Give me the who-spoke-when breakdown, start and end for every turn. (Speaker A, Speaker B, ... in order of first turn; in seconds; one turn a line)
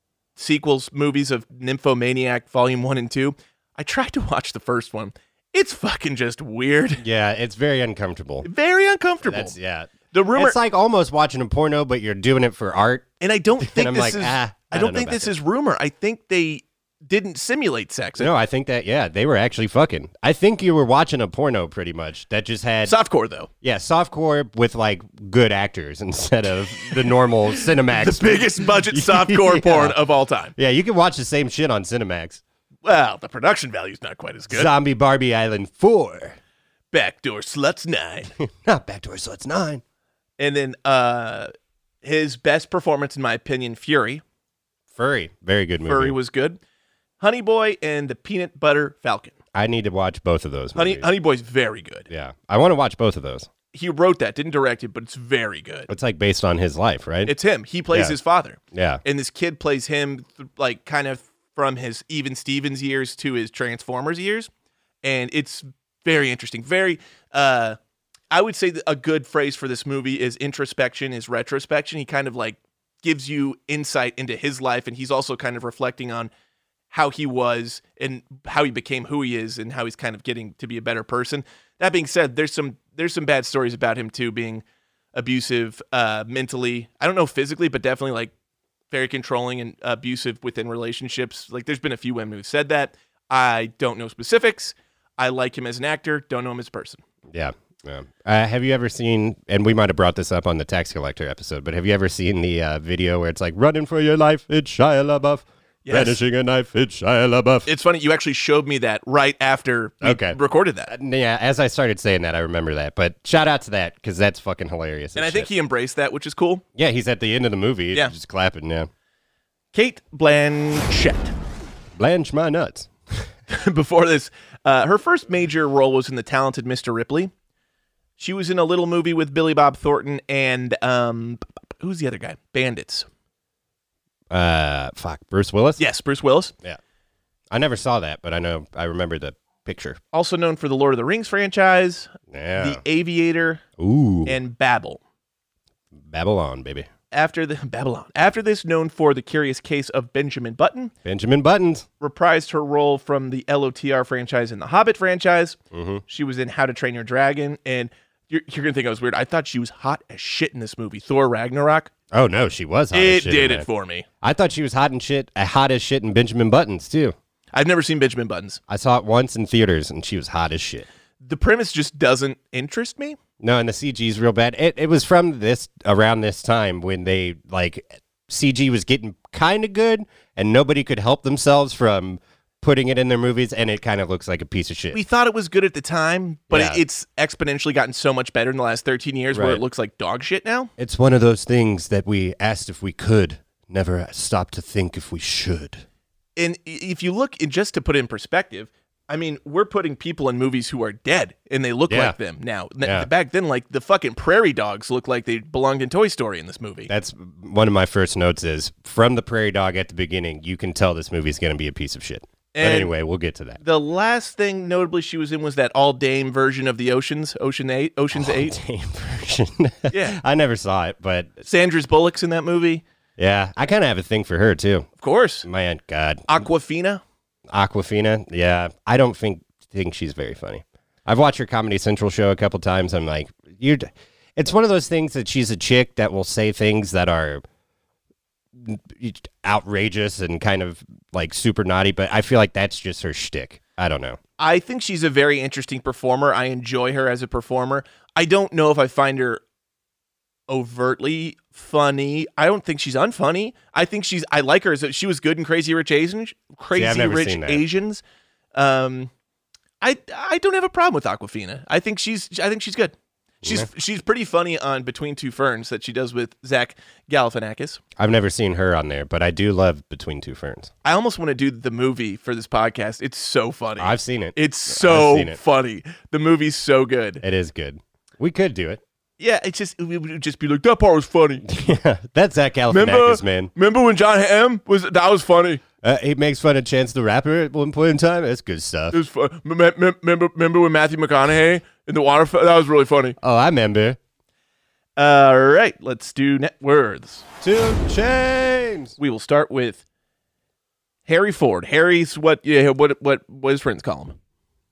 Speaker A: 0.4-7.0
Speaker B: 7.0-8.5
Speaker A: 8.4-9.5
Speaker B: 9.2-13.1
Speaker A: 10.1-10.6
Speaker A: 13.2-18.3
Speaker B: 13.6-15.3
Speaker B: 18.2-22.9
Speaker A: 22.9-23.5
Speaker B: 23.6-30.0
Speaker A: 27.9-30.5
Speaker B: 30.6-32.4
Speaker A: 32.8-34.7
Speaker B: 34.5-36.4
Speaker A: 36.9-38.3
Speaker B: 38.4-39.8
Speaker A: 40.4-41.5
Speaker A: 42.0-44.2
Speaker B: 44.9-46.2
Speaker A: 45.8-46.6
Speaker A: 47.2-49.3
Speaker B: 49.5-51.1
Speaker A: 50.8-52.1
Speaker B: 52.1-53.5
Speaker A: 53.7-55.9
Speaker B: 55.9-57.3
Speaker A: 57.3-64.5
Speaker B: 57.9-58.2
Speaker B: 58.7-59.0
Speaker A: 65.0-67.8
Speaker A: 68.3-76.3
Speaker A: 76.9-88.3
Speaker A: 88.9-97.0
Speaker B: 97.3-107.7
Speaker A: 105.9-106.2
Speaker A: 107.7-110.9
Speaker B: 110.0-110.4
Speaker B: 110.9-115.5
Speaker A: 115.2-116.6
Speaker B: 116.8-118.9
Speaker A: 119.7-121.3
Speaker B: 122.0-123.3
Speaker A: 123.5-127.3
Speaker A: 128.2-133.1
Speaker B: 134.3-135.8
Speaker A: 135.8-136.5
Speaker B: 137.5-140.0
Speaker A: 140.1-143.6
Speaker B: 142.3-142.8
Speaker B: 143.8-144.4
Speaker A: 144.3-145.0
Speaker B: 146.0-146.9
Speaker A: 147.1-150.9
Speaker B: 151.0-151.9
Speaker A: 152.0-161.9
Speaker B: 155.7-156.0
Speaker B: 162.1-163.7
Speaker A: 162.9-164.1
Speaker B: 164.2-167.2
Speaker A: 167.5-168.6
Speaker B: 168.7-170.9
Speaker A: 171.2-173.2
Speaker B: 173.4-185.0
Speaker A: 184.9-190.7
Speaker B: 186.5-186.8
Speaker B: 189.3-189.6
Speaker B: 190.8-195.8
Speaker A: 196.4-206.9
Speaker B: 201.9-202.2
Speaker B: 202.8-203.1
Speaker B: 206.9-213.6
Speaker A: 212.5-212.9
Speaker A: 213.6-218.5
Speaker B: 218.1-221.4
Speaker A: 219.9-220.2
Speaker A: 221.4-222.8
Speaker B: 223.2-224.9
Speaker A: 225.0-225.5
Speaker B: 225.4-226.5
Speaker A: 226.3-227.0
Speaker B: 227.5-237.4
Speaker B: 238.6-244.2
Speaker A: 244.4-249.4
Speaker A: 250.5-258.0
Speaker B: 256.7-257.7
Speaker A: 258.6-259.1
Speaker A: 259.8-267.8
Speaker B: 268.0-270.7
Speaker A: 270.8-277.2
Speaker B: 273.8-275.4
Speaker B: 277.2-278.8
Speaker A: 279.2-281.4
Speaker B: 281.5-283.5
Speaker A: 282.7-285.6
Speaker B: 285.8-289.0
Speaker A: 288.9-293.2
Speaker B: 293.2-294.0
Speaker A: 295.0-297.2
Speaker B: 297.4-298.9
Speaker A: 299.0-299.8
Speaker A: 301.1-304.2